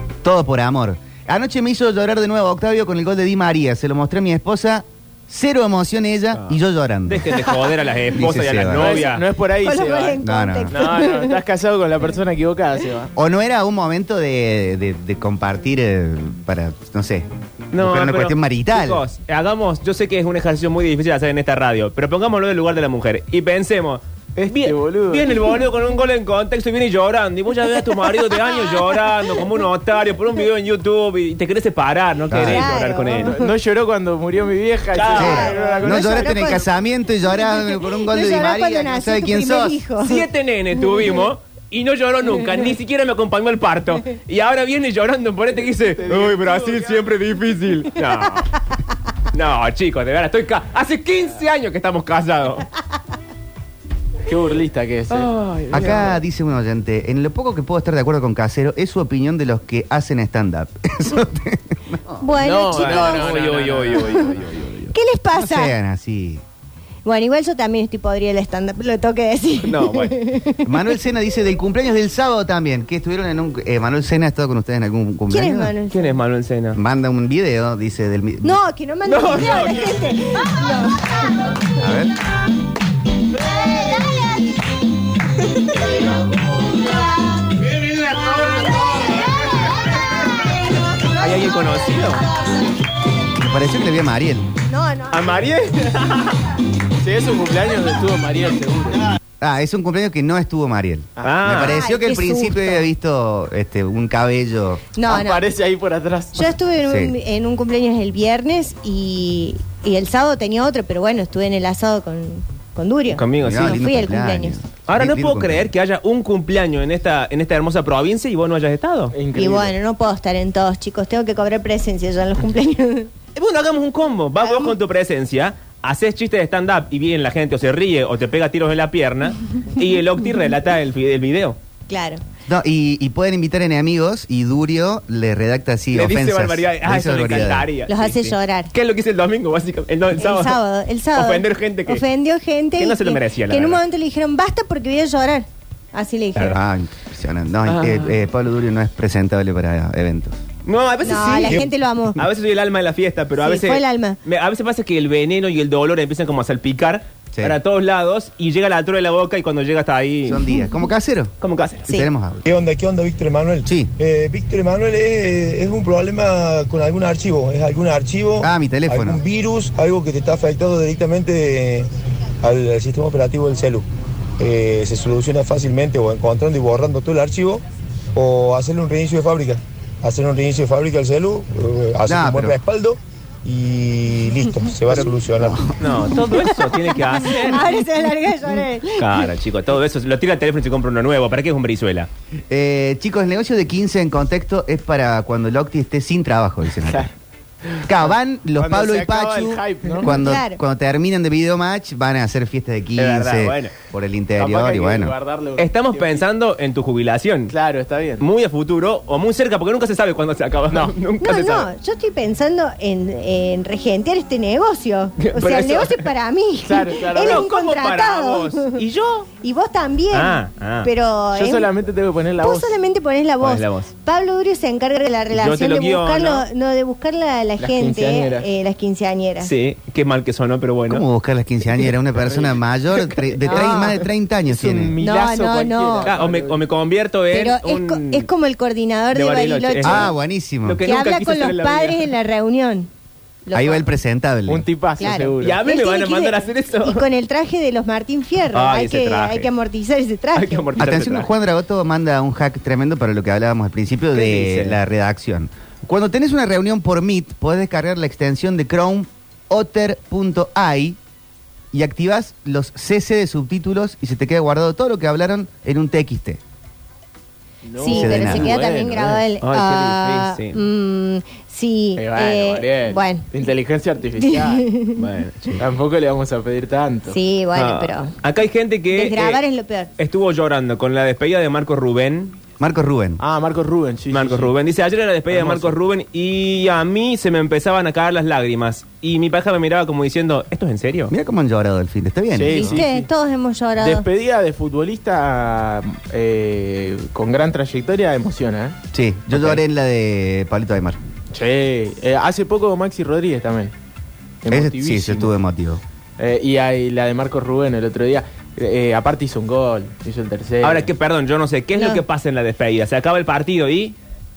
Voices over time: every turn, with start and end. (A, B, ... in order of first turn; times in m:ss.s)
0:00.2-0:07.4 A
0:06.4-0:09.3 B
0:07.3-0:07.7 C
0:08.1-0:09.1 A
0:08.7-0:13.1 C
0:09.6-0:11.4 D
0:10.2-0:10.7 A
0:13.2-0:19.0 A
0:17.7-0:33.4 B
0:24.4-0:25.3 C
0:32.3-0:32.7 A
0:32.4-0:33.4 D
0:33.1-0:36.6 C
0:34.9-0:35.6 B
0:35.2-0:36.6 D
0:35.2-0:39.8 A
0:37.7-0:40.2 D
0:40.0-0:48.6 B
0:45.9-0:47.1 C
0:49.3-0:52.7 B
0:54.3-0:56.0 C
0:55.1-0:56.2 B
0:55.7-1:02.2 A
1:02.2-1:03.3 D
1:02.4-1:04.5 C
1:02.7-1:04.9 B
1:04.9-1:05.7 D
1:05.4-1:06.4 A
1:07.0-1:10.9 D
1:09.6-1:10.2 B
1:10.6-1:15.7 A
1:15.3-1:16.2 D
1:15.9-1:16.8 B
1:16.7-1:18.6 A
1:18.4-1:21.2 D
1:19.1-1:20.1 B
1:21.8-1:22.1 A
1:23.8-1:24.2 D
1:31.2-1:32.2 B
1:33.4-1:34.5 A
1:34.7-1:35.5 D
1:35.1-1:36.4 B
1:37.0-1:39.2 C
1:39.4-1:44.9 A
1:41.2-1:41.5 C
1:41.2-1:41.8 B
1:41.5-1:42.9 D
1:45.0-1:45.4 D
1:45.0-1:46.6 C
1:46.4-1:54.6 D
1:46.8-1:47.2 A
1:53.1-1:53.8 B
1:53.4-1:55.7 A
1:54.9-1:59.2 B
1:59.1-1:59.8 C
1:59.4-2:03.1 D
2:03.4-2:11.6 B
2:04.4-2:04.7 D
2:11.9-2:12.2 D
2:12.5-2:17.7 A
2:15.9-2:20.6 B
2:17.9-2:18.7 D
2:20.2-2:26.6 D
2:21.1-2:22.0 B
2:22.8-2:23.8 B
2:26.5-2:30.4 A
2:27.7-2:28.2 B
2:30.6-2:40.6 B
2:31.0-2:32.2 D
2:33.4-2:34.2 D
2:40.3-2:41.3 A
2:41.4-2:41.9 B
2:41.9-2:42.5 A
2:42.5-2:51.9 E
2:43.7-2:43.9 A
2:48.4-2:49.2 A
2:52.4-2:53.8 E
2:54.4-2:57.6 E
2:58.2-3:05.7 E
3:02.1-3:02.6 A
3:05.7-3:07.8 B
3:06.3-3:09.3 D
3:09.0-3:12.1 B
3:12.5-3:17.1 A
3:16.8-3:17.1 C
3:17.7-3:20.2 C
3:17.8-3:25.2 A
3:20.1-3:20.6 D
3:23.0-3:23.8 B
3:24.4-3:26.3 C
3:25.6-3:27.5 B
3:27.5-3:28.2 C
3:28.2-3:31.7 B
3:31.2-3:38.8 D
3:35.2-3:36.1 B
3:36.7-3:37.5 C
3:37.2-3:39.3 B
3:39.4-3:41.7 D
3:40.1-3:40.9 B
3:41.3-3:42.8 C
3:42.4-3:49.5 D
3:43.4-3:43.9 B
3:45.3-3:46.5 B
3:47.6-3:48.5 C
3:49.4-3:51.0 B
3:50.9-3:55.0 A
3:52.2-3:52.6 C
3:53.4-3:53.8 C
3:53.5-3:54.0 D
3:54.5-3:56.6 C
3:55.0-3:56.1 D
3:56.0-3:58.3 B
3:57.3-4:00.1 D
3:59.1-4:00.1 B
3:59.8-4:00.8 A
4:00.6-4:02.0 B
4:00.8-4:02.9 D
4:03.5-4:03.8 D
4:03.5-4:04.7 A
4:04.5-4:05.6 C
4:05.0-4:10.7 D
4:05.4-4:07.1 B
4:08.5-4:09.5 B
4:10.4-4:11.3 B
4:10.8-4:21.0 A
4:14.1-4:14.8 B
4:21.7-4:26.4 A
4:27.6-4:29.2 C
4:27.8-4:33.3 D
4:27.9-4:28.6 A
4:29.4-4:30.6 B
4:32.0-4:34.7 C
4:34.2-4:35.0 D
4:35.0-4:35.6 B
4:35.6-4:37.2 C
4:37.1-4:38.2 D
4:37.6-4:39.4 B
4:38.9-4:39.9 D
4:40.0-4:42.4 B
4:42.6-4:43.2 A
4:43.2-4:44.5 C
4:44.1-4:51.1 B
4:45.3-4:45.8 C
4:51.1-4:52.8 A
4:52.3-4:53.1 C
4:52.5-4:54.1 D
4:53.8-4:58.8 C
4:58.9-5:01.0 A
5:01.3-5:03.7 C
5:04.4-5:05.3 C
5:04.5-5:05.8 A
5:06.2-5:10.9 C
5:10.6-5:14.0 B
5:11.8-5:12.0 D